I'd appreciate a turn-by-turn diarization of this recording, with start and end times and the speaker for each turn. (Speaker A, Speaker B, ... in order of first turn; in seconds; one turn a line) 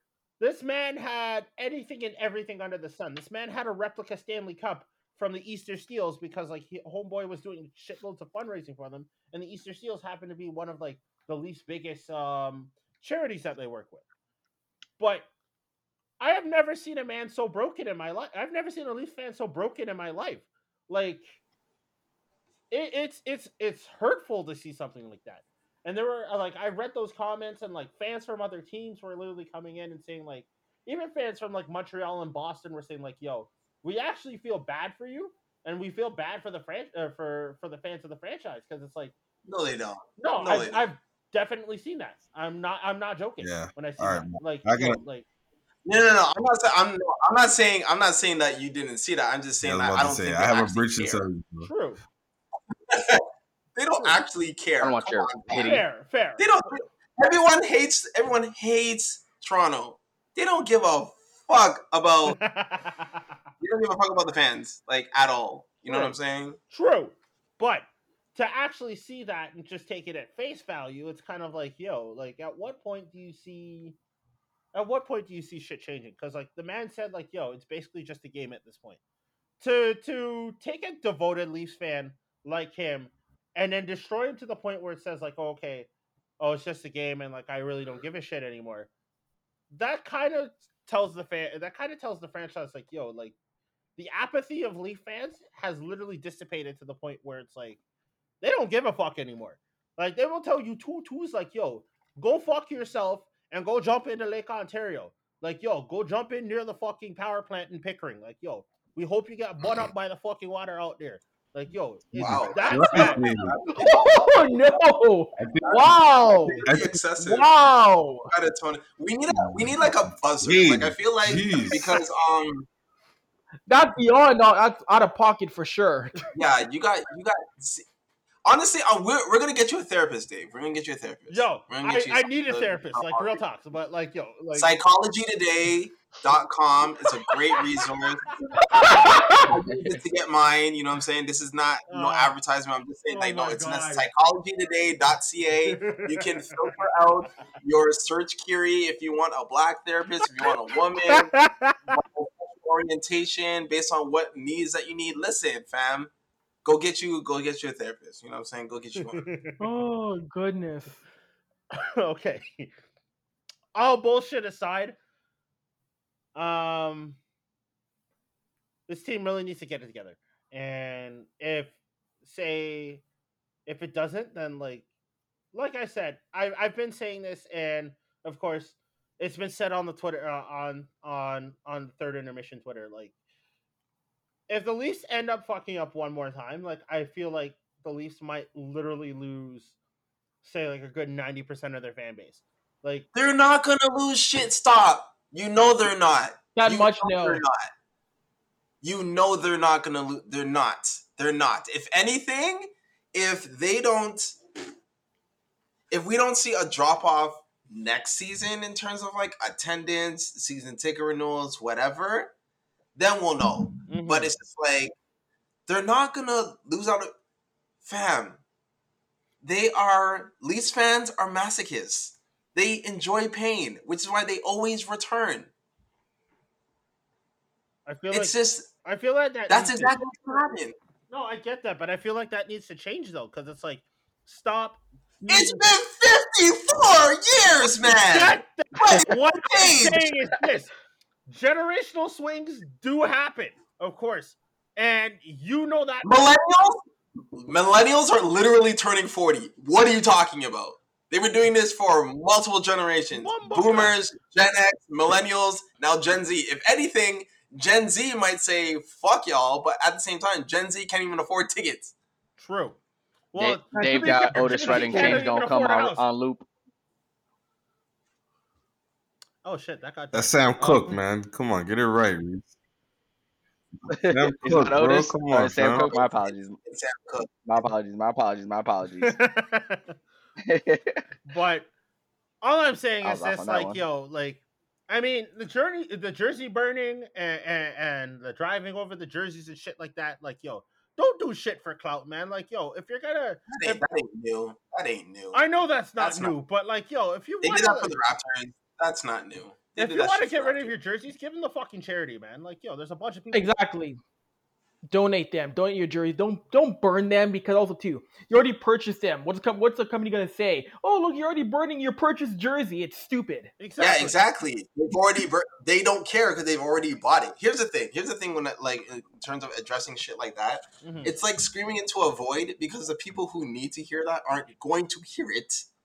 Speaker A: 0.4-14.0
Speaker A: 15.0-15.3
Speaker A: 16.2-21.4
Speaker A: 22.7-39.1
Speaker B: 39.4-40.9
Speaker A: 40.2-45.2
Speaker C: 43.4-45.0
Speaker B: 45.9-51.3
Speaker C: 49.6-51.7
Speaker A: 51.6-52.0
Speaker B: 52.9-55.8
Speaker D: 54.8-55.8
Speaker A: 55.5-56.5
Speaker B: 56.4-62.4
Speaker A: 62.2-63.2
Speaker B: 63.6-66.6
Speaker A: 65.9-66.2
Speaker A: 66.7-74.0
Speaker A: 74.7-79.0
Speaker A: 79.6-85.9
Speaker A: 86.4-88.9
Speaker A: 89.7-93.3
Speaker A: 94.0-97.8
Speaker A: 98.4-113.2
Speaker C: 112.2-113.5
Speaker B: 112.2-114.5
Speaker E: 113.7-118.3
Speaker C: 115.4-115.6
Speaker B: 115.6-117.5
Speaker C: 116.6-117.0
Speaker B: 118.3-122.7
Speaker C: 119.3-121.9
Speaker E: 123.7-126.3
Speaker B: 126.3-127.8
Speaker B: 128.4-133.4
Speaker A: 131.3-134.7
Speaker B: 134.5-138.3
Speaker E: 138.7-139.5
Speaker B: 138.9-151.3
Speaker D: 139.7-139.9
Speaker A: 141.9-142.3
Speaker A: 143.1-144.1
Speaker A: 145.7-146.7
Speaker A: 151.3-151.8
Speaker B: 151.9-156.1
Speaker B: 156.6-159.2
Speaker A: 159.0-159.6
Speaker E: 159.6-161.0
Speaker A: 161.7-162.7
Speaker A: 163.7-165.0
Speaker A: 166.3-167.2
Speaker A: 168.9-173.0
Speaker A: 173.7-174.8
Speaker A: 175.5-183.1
Speaker A: 184.5-189.8
Speaker A: 190.4-193.1
Speaker B: 193.1-197.7
Speaker E: 196.5-197.4
Speaker B: 198.8-204.4
Speaker B: 205.9-212.3
Speaker B: 212.9-214.9
Speaker A: 213.9-214.3
Speaker B: 215.7-217.1
Speaker B: 217.8-218.4
Speaker B: 219.4-225.5
Speaker A: 227.8-230.0
Speaker B: 228.1-228.7
Speaker B: 229.5-230.8
Speaker A: 231.1-235.6
Speaker B: 235.3-240.1
Speaker A: 237.8-240.7
Speaker A: 241.3-246.1
Speaker B: 246.0-246.8
Speaker B: 247.3-261.9
Speaker A: 253.1-254.0
Speaker A: 262.4-262.8
Speaker A: 263.3-266.0
Speaker D: 263.4-266.4
Speaker E: 264.4-265.3
Speaker A: 269.4-271.0
Speaker C: 270.1-272.5
Speaker D: 273.9-276.6
Speaker C: 274.0-275.9
Speaker B: 275.7-277.5
Speaker D: 277.5-279.2
Speaker A: 279.0-279.9
Speaker D: 280.5-281.0
Speaker A: 281.2-281.7
Speaker A: 282.4-293.9
Speaker D: 283.0-283.8
Speaker B: 293.5-295.4
Speaker A: 295.3-297.9
Speaker B: 296.0-296.3
Speaker B: 297.4-300.7
Speaker A: 299.8-303.5
Speaker E: 303.3-304.0
Speaker E: 304.9-313.5
Speaker A: 313.6-314.2
Speaker B: 313.8-325.7
Speaker A: 320.8-321.1